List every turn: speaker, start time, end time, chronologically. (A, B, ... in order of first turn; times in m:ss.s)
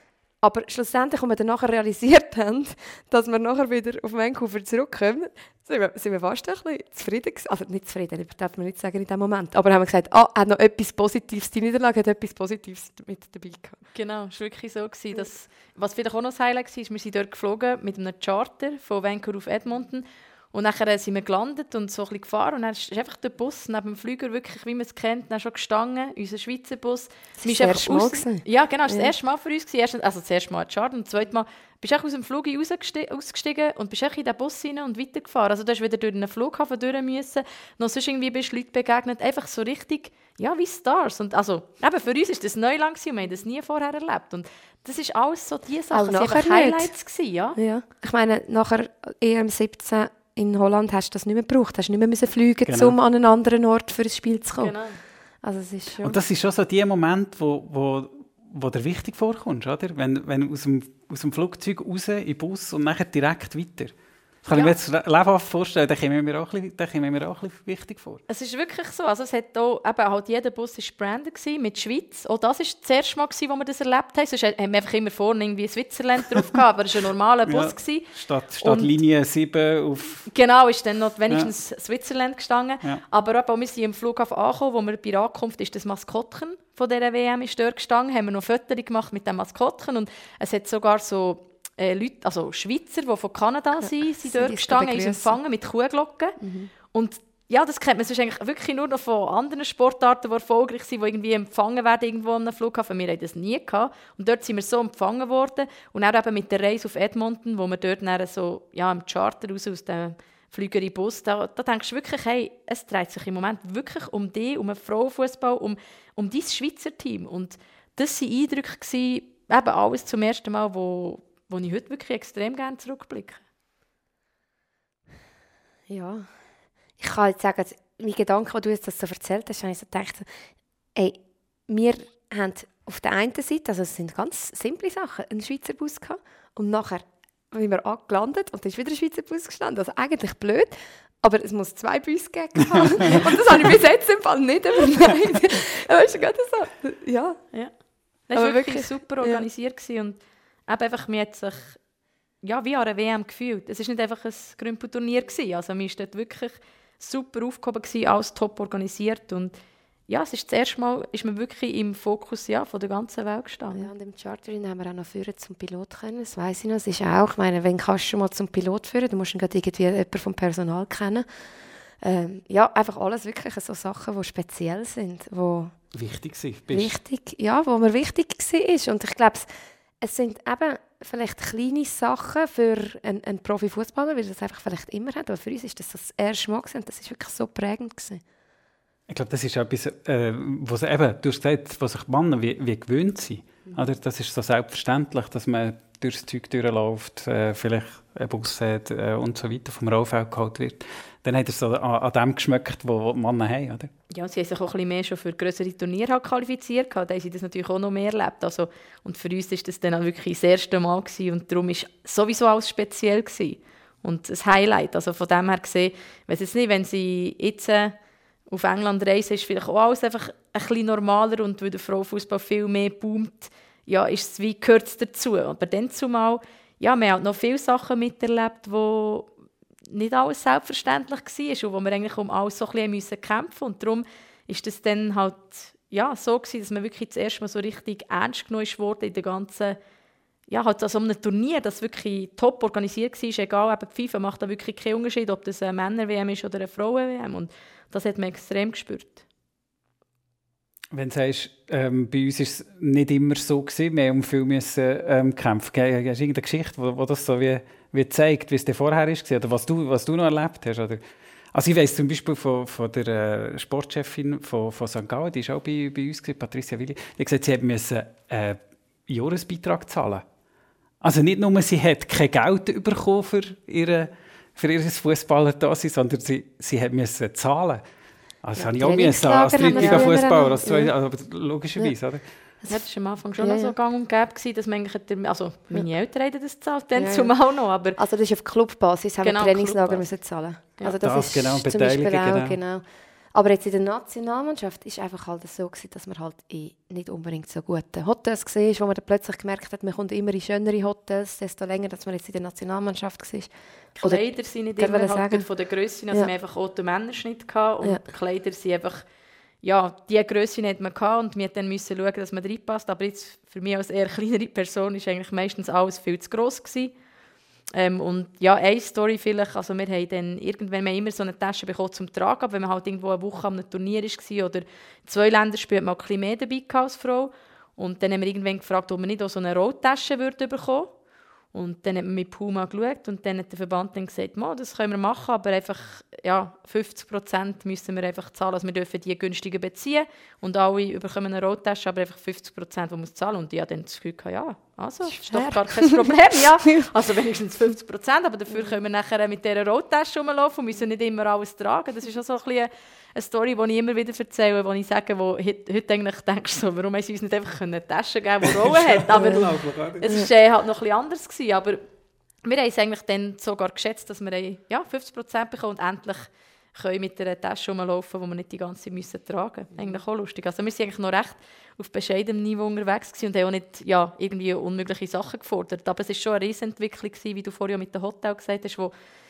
0:00.4-0:13.8 A
0:13.9-0:47.6 B
0:27.4-0:29.1 A
0:45.9-0:46.9 A
0:47.6-0:54.8 A
0:52.7-0:53.0 C
0:54.6-0:55.0 B
0:55.4-0:56.2 A
0:56.0-1:08.2 C
1:08.3-1:18.9 B
1:17.5-1:20.3 C
1:20.3-1:36.4 B
1:34.2-1:35.4 A
1:36.4-1:36.7 A
1:36.9-2:03.4 B
2:05.9-2:06.3 A
2:07.0-2:10.3 A
2:11.0-2:27.5 A
2:28.3-2:31.8 B
2:28.4-2:29.4 A
2:32.4-2:39.5 B
2:40.1-2:43.9 B
2:43.8-2:51.3 A
2:52.0-2:55.8 A
2:55.9-2:56.9 C
2:56.7-2:59.5 A
3:00.0-3:08.2 A
3:09.1-3:23.9 C
3:24.1-3:38.0 B
3:38.5-3:49.3 B
3:49.9-3:59.8 B
4:00.5-4:09.2 B
4:10.9-4:21.0 C
4:21.5-4:30.2 C
4:31.0-4:37.8 C
4:38.4-4:42.2 C
4:38.6-4:40.9 A
4:39.7-4:40.1 B
4:42.7-4:48.0 B
4:43.4-4:43.7 A
4:47.0-4:47.4 A
4:48.0-5:05.5 A
4:49.2-4:50.0 B
4:51.0-4:52.6 C
5:04.0-5:09.0 B
5:09.6-5:16.9 B
5:17.7-5:30.9 B
5:31.5-5:59.5 B
5:45.1-5:46.1 A
5:58.4-6:00.2 C
5:59.2-5:59.5 A
6:00.0-6:01.8 B
6:02.4-6:18.9 B